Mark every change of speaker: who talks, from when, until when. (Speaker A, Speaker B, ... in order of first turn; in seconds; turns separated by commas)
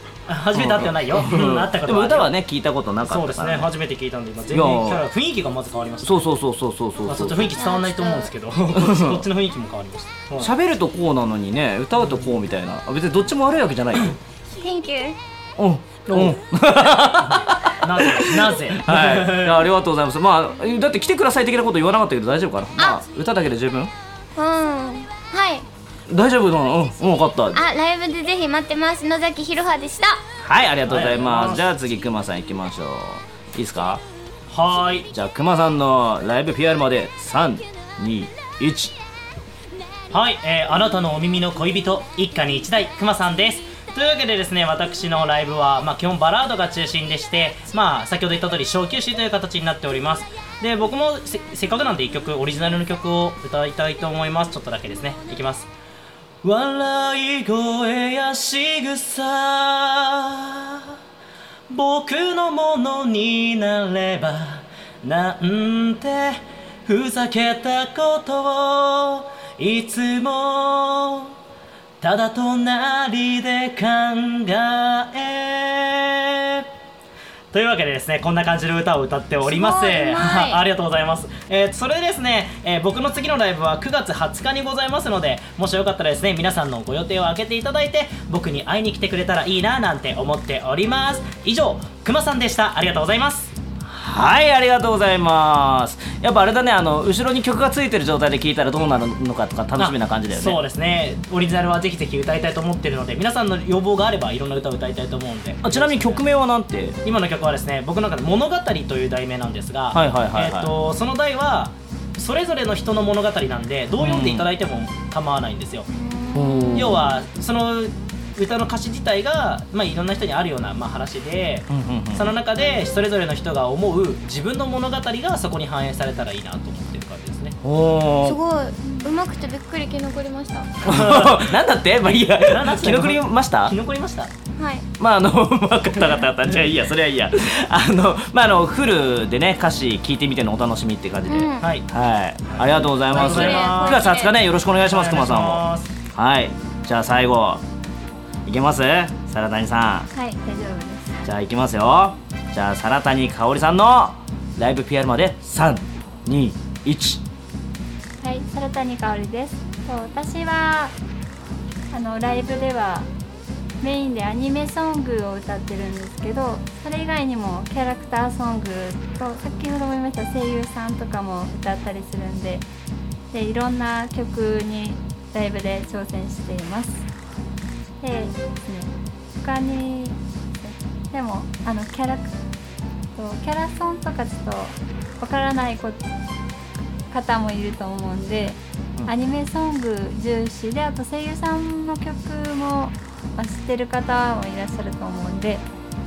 Speaker A: 0.3-2.3, Speaker B: 0.6-3.7, Speaker A: 3.1-6.3, Speaker B: 4.5-5.0, Speaker B: 6.0-7.6, Speaker A: 7.1-10.5, Speaker C: 7.6-8.3, Speaker B: 8.7-9.3, Speaker B: 10.4-14.2, Speaker A: 12.0-12.3, Speaker C: 14.6-15.2, Speaker B: 15.6-23.9, Speaker A: 16.1-16.4, Speaker A: 17.2-19.7, Speaker C: 24.4-25.7, Speaker B: 26.1-27.6, Speaker C: 27.5-30.2, Speaker B: 30.4-34.0, Speaker A: 30.9-31.6, Speaker A: 34.5-35.1, Speaker B: 35.1-39.0, Speaker A: 40.1-55.7, Speaker A: 56.4-60.9, Speaker A: 61.7-71.3, Speaker A: 72.0-76.7, Speaker A: 77.5-93.5, Speaker C: 79.5-80.6, Speaker B: 93.8-100.6, Speaker A: 99.8-106.2, Speaker B: 105.6-107.0, Speaker A: 107.0-115.9, Speaker B: 109.9-110.7, Speaker B: 114.0-114.5, Speaker C: 115.9-117.1, Speaker B: 116.3-117.1, Speaker A: 116.8-127.6, Speaker B: 121.7-122.4, Speaker B: 127.6-128.4, Speaker C: 128.2-130.7, Speaker D: 128.8-129.1, Speaker A: 130.8-131.5, Speaker B: 130.8-133.8, Speaker A: 132.1-134.3, Speaker C: 134.6-134.9, Speaker B: 135.0-147.6, Speaker C: 141.3-141.7, Speaker A: 142.5-144.1, Speaker C: 143.1-144.3, Speaker A: 144.9-145.9, Speaker B: 148.5-150.1, Speaker D: 150.1-151.2, Speaker B: 151.2-157.2, Speaker D: 158.2-160.9, Speaker D: 161.9-163.1, Speaker D: 163.8-172.7, Speaker D: 173.3-177.1, Speaker D: 178.0-182.4, Speaker D: 183.2-186.1, Speaker D: 187.1-195.7